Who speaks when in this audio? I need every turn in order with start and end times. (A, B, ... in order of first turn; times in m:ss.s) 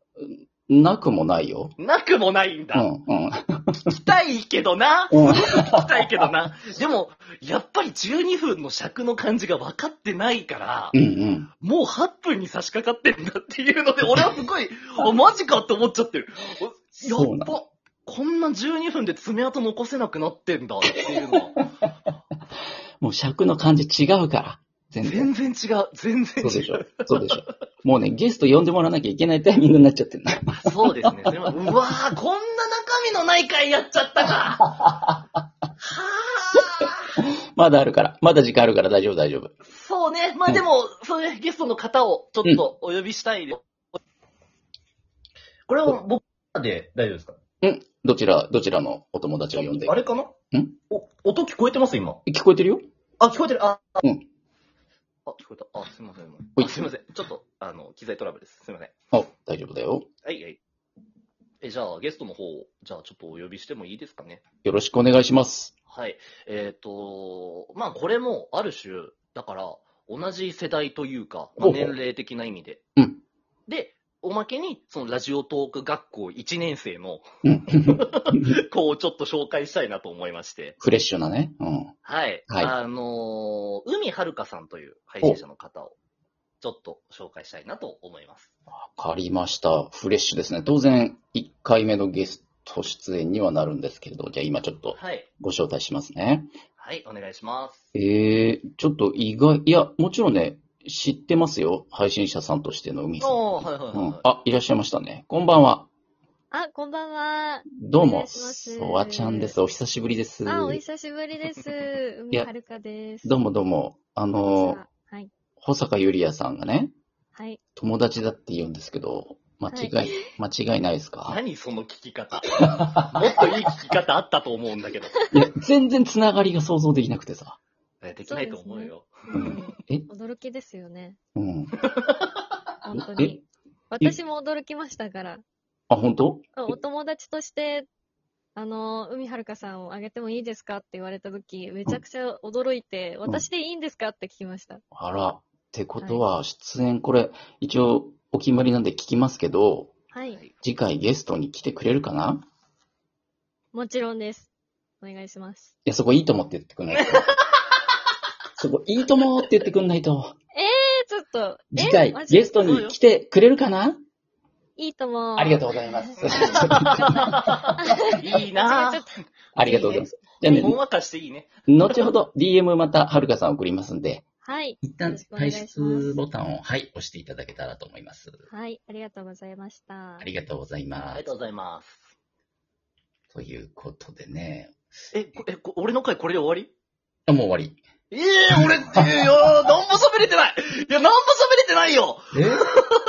0:00.2-0:01.8 A
0:01.8-0:02.9 B
0:02.7-0:03.8 A
0:03.8-0:11.0 B
0:05.1-0:06.0 A
0:10.9-0:11.5 A
0:11.6-0:21.6 B
0:17.0-0:17.6 A
0:23.0-0:25.3 A
0:25.0-0:27.3 B
0:26.4-0:31.1 A
0:30.5-0:34.7 B
0:34.7-0:35.1 A
0:35.8-0:37.1 B
0:37.2-0:39.5 A
0:39.7-0:43.6 B
0:45.7-0:47.4 B
0:47.6-0:50.0 A
0:49.6-0:50.4 B
0:50.9-0:52.2 B
0:52.2-0:52.8 A
0:53.2-0:54.0 B
0:55.3-0:58.9 B
0:56.6-0:56.9 A
0:59.1-1:00.1 A
1:00.2-1:00.6 B
1:01.6-1:04.4 B
1:04.6-1:05.7 A
1:05.9-1:12.8 B
1:11.6-1:12.0 A
1:13.0-1:13.2 A
1:13.7-1:17.2 B
1:17.4-1:18.5 A
1:17.8-1:20.8 B
1:20.8-1:21.9 A
1:22.0-1:26.0 B
1:26.6-1:28.5 B
1:28.7-1:36.5 A
1:34.9-1:35.3 B
1:36.8-1:37.9 B
1:37.9-1:45.9 A
1:43.2-1:44.2 B
1:46.5-1:49.6 C
1:47.8-1:50.8 A
1:50.4-1:53.4 C
1:53.2-1:54.8 A
1:54.5-1:55.3 C
1:55.6-1:56.9 A
1:57.4-1:57.6 C
1:57.8-2:01.4 A
1:59.7-2:00.2 C
2:01.3-2:05.2 B
2:02.7-2:03.2 A
2:05.3-2:07.6 A
2:08.0-2:09.2 B
2:08.2-2:11.2 C
2:09.3-2:10.1 A
2:11.4-2:11.8 A
2:11.8-2:12.4 B
2:12.8-2:15.4 C
2:13.0-2:13.4 A
2:15.9-2:16.7 A
2:16.6-2:17.9 C
2:18.6-2:24.8 C
2:24.9-2:29.9 A
2:30.1-2:30.4 C
2:30.6-2:32.4 A
2:33.7-2:34.5 C
2:35.0-2:35.7 C
2:35.9-2:37.4 A
2:36.9-2:37.9 B
2:38.6-2:40.4 A
2:40.5-2:42.7 C
2:41.7-2:44.0 A
2:42.6-2:43.0 B
2:44.8-2:50.8 C
2:45.4-2:47.5 A
2:46.2-2:49.1 B
2:49.5-2:50.8 A
2:50.5-2:52.1 B
2:51.7-2:54.2 A
2:54.4-2:56.2 C
2:54.8-2:58.4 A
2:58.5-3:00.3 C
3:00.2-3:01.3 A
3:01.1-3:02.1 B
3:03.3-3:04.8 A
3:05.1-3:06.7 B
3:07.3-3:07.8 A
3:08.1-3:13.0 B
3:12.3-3:12.6 A